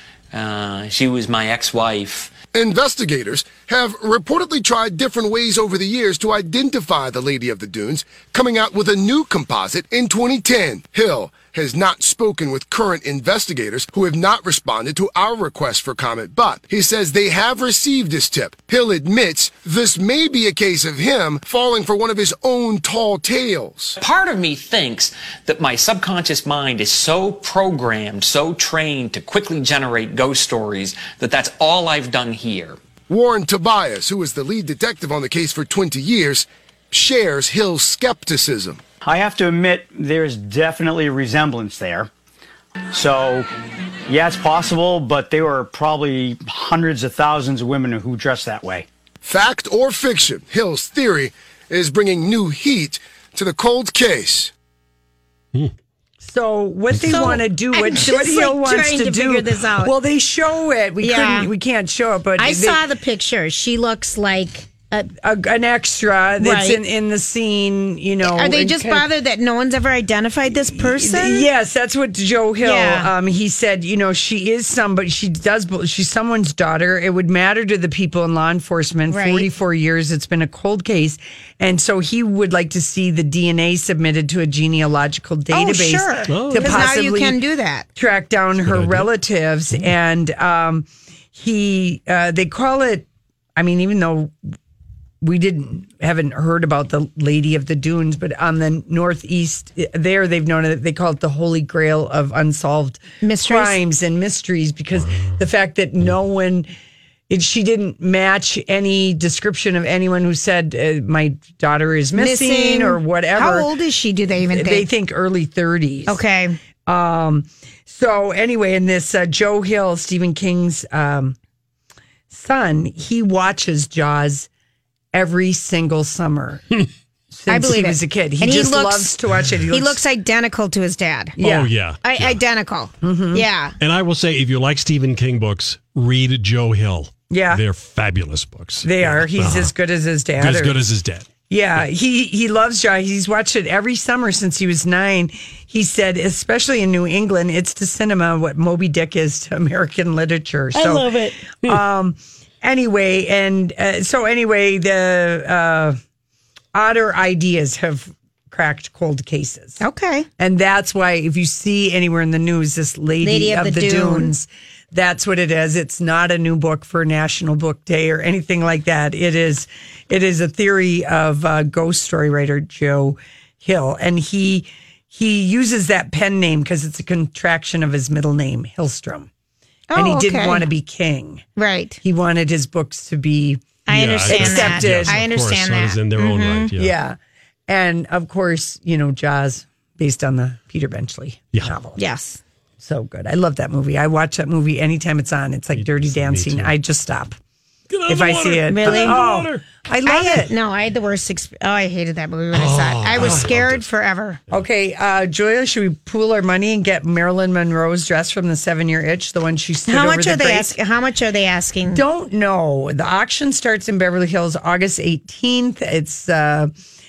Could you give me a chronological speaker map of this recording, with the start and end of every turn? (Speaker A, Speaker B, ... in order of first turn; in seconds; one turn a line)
Speaker A: 0.3-2.4
Speaker B: 2.5-23.9
Speaker A: 24.0-32.8
Speaker B: 33.1-38.8
Speaker C: 39.0-42.1
Speaker C: 42.9-43.5
Speaker C: 44.1-48.9
Speaker B: 49.2-54.5
Speaker D: 56.2-62.8
Speaker E: 57.0-57.4
Speaker F: 57.0-59.9
Speaker F: 61.0-61.5
Speaker F: 62.4-65.1
Speaker D: 65.2-69.1
Speaker F: 66.4-66.8
Speaker F: 68.2-71.5
Speaker D: 70.7-87.4
Speaker F: 72.6-73.1
Speaker F: 79.1-79.5
Speaker F: 85.5-87.9
Speaker E: 86.3-86.9
Speaker D: 87.9-94.3
Speaker E: 88.6-89.1
Speaker D: 95.2-106.7
Speaker F: 103.2-103.8
Speaker E: 105.0-105.4
Speaker D: 107.3-113.7
Speaker F: 112.2-114.9
Speaker D: 114.5-116.2
Speaker F: 116.1-116.6
Speaker D: 116.9-121.4
Speaker D: 122.3-124.5
Speaker D: 125.1-126.6
Speaker D: 127.3-130.0
Speaker F: 127.5-129.1
Speaker F: 129.7-131.4
Speaker D: 131.4-131.7
Speaker E: 131.4-132.4
Speaker F: 132.0-133.7
Speaker D: 133.0-133.4
Speaker E: 133.8-139.7
Speaker D: 137.3-137.6
Speaker D: 138.8-140.8
Speaker E: 140.4-141.3
Speaker D: 141.5-156.0
Speaker F: 150.7-151.3
Speaker D: 156.7-159.8
Speaker F: 159.8-160.3
Speaker D: 160.4-179.3
Speaker F: 163.2-164.3
Speaker F: 179.9-180.7
Speaker D: 179.9-181.4
Speaker F: 181.6-182.0
Speaker D: 182.0-183.7
Speaker F: 183.9-186.7
Speaker E: 183.9-186.9
Speaker D: 184.3-185.2
Speaker D: 186.8-187.2
Speaker D: 187.7-192.0
Speaker F: 192.0-192.4
Speaker D: 192.8-197.3
Speaker E: 195.7-196.7
Speaker E: 197.9-199.7
Speaker D: 198.1-200.5
Speaker F: 198.7-199.2
Speaker F: 200.1-204.4
Speaker E: 202.5-203.8
Speaker D: 203.2-203.5
Speaker D: 204.5-210.7
Speaker F: 209.9-212.0
Speaker D: 211.9-216.7